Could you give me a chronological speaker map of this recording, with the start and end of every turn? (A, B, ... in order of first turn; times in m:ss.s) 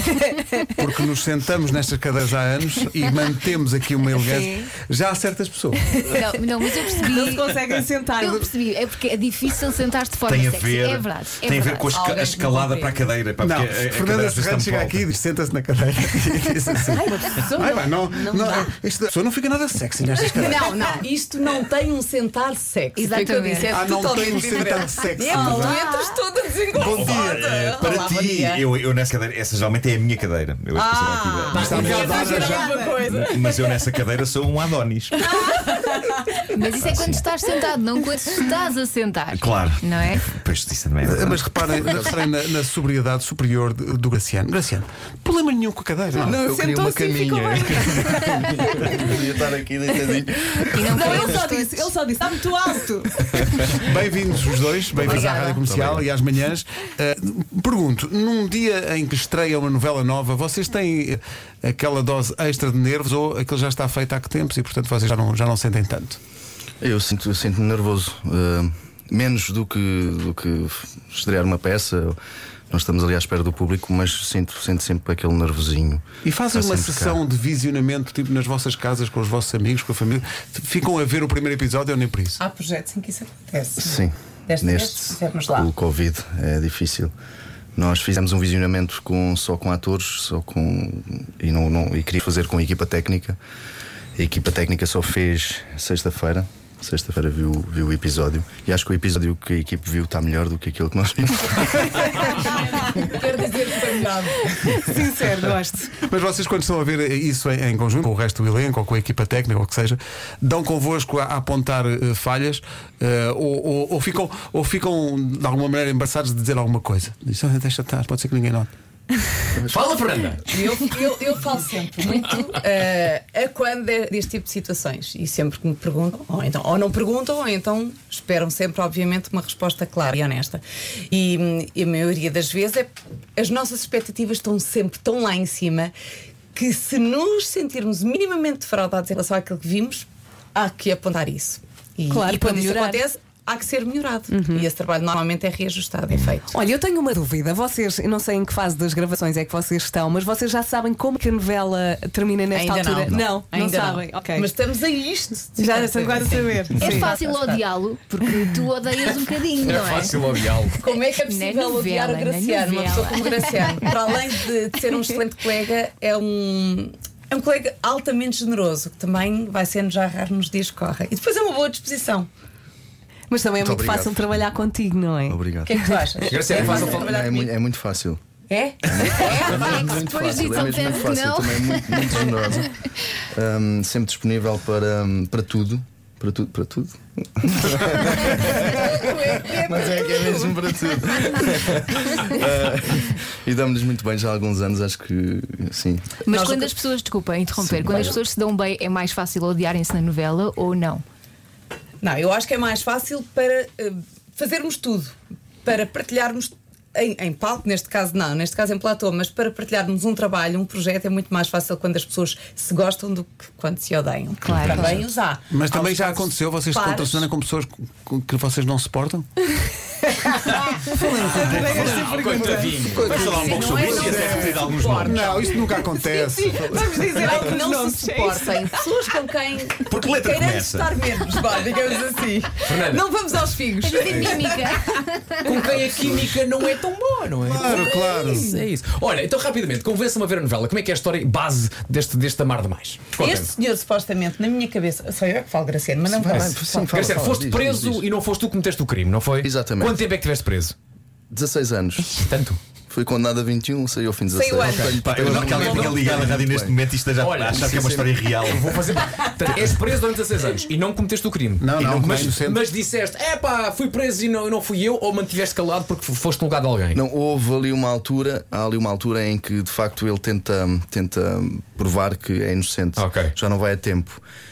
0:00.8-0:06.0 A
0:04.2-0:04.7 B
0:06.0-0:07.6 C
0:07.0-0:08.5 B
0:08.2-0:11.9 C
0:10.3-0:15.1 D
0:11.9-0:13.1 E
0:13.4-0:20.7 A
0:16.9-0:18.7 B
0:18.4-0:18.7 E
0:20.3-0:28.7 E
0:23.0-0:26.2 C
0:23.7-0:25.8 A
0:26.7-0:35.3 D
0:26.8-0:27.1 A
0:30.8-0:33.6 E
0:31.5-0:32.8 A
0:31.8-0:33.0 B
0:35.3-0:36.4 E
0:36.5-0:40.2 C
0:36.8-0:37.3 D
0:39.3-0:41.6 D
0:41.0-0:46.4 A
0:41.8-0:42.2 F
0:46.2-0:51.4 F
0:46.3-0:49.1 B
0:50.6-0:51.9 C
0:50.9-0:53.4 B
0:53.7-1:06.2 A
0:55.0-0:56.1 F
1:06.8-1:12.2 F
1:12.7-1:17.2 F
1:16.2-1:22.4 A
1:22.4-1:25.7 E
1:23.8-1:27.1 F
1:27.8-1:33.4 F
1:34.2-1:42.1 F
1:42.3-1:44.6 E
1:44.6-1:45.9 B
1:46.0-1:58.7 A
1:59.6-1:59.9 F
1:59.7-2:00.4 G
2:00.5-2:15.9 E
2:16.5-2:26.6 E
2:22.1-2:23.0 B
2:24.3-2:24.7 B
2:26.5-2:34.5 B
2:32.5-2:37.7 E
2:35.6-2:37.1 B
2:36.9-2:40.1 C
2:39.6-2:40.8 G
2:40.8-2:52.3 E
2:40.9-2:43.9 C
2:53.3-2:56.1 B
2:53.6-2:54.3 F
2:55.3-2:55.7 F
2:55.6-2:57.5 E
2:56.2-2:57.1 G
2:56.5-2:58.2 F
2:58.5-3:00.0 E
2:58.8-3:08.9 F
2:59.3-3:02.7 C
3:08.2-3:10.8 E
3:09.7-3:16.2 F
3:16.2-3:21.0 C
3:16.3-3:16.8 E
3:17.6-3:18.2 F
3:22.0-3:37.3 E
3:34.4-3:35.1 C
3:35.5-3:39.3 A
3:40.4-3:42.1 D
3:40.8-3:47.0 A
3:41.3-3:43.0 B
3:41.3-3:43.6 G
3:42.9-3:45.3 D
3:43.1-3:54.7 E
3:46.2-3:48.9 B
3:49.8-3:51.0 D
3:52.6-3:53.0 G
3:53.8-3:55.7 C
3:54.1-3:54.4 D
3:55.4-4:03.5 G
3:57.5-3:58.5 E
3:57.5-3:58.6 A
4:03.2-4:06.9 E
4:06.1-4:08.0 F
4:06.2-4:10.8 G
4:09.4-4:10.0 F
4:11.3-4:12.2 F
4:12.0-4:12.6 G
4:12.9-4:16.8 F
4:14.3-4:16.1 E
4:14.6-4:18.8 D
4:17.2-4:27.0 G
4:17.5-4:18.2 F
4:21.6-4:22.6 A
4:21.8-4:22.4 F
4:21.8-4:22.2 D
4:26.9-4:34.2 F
4:33.0-4:33.3 G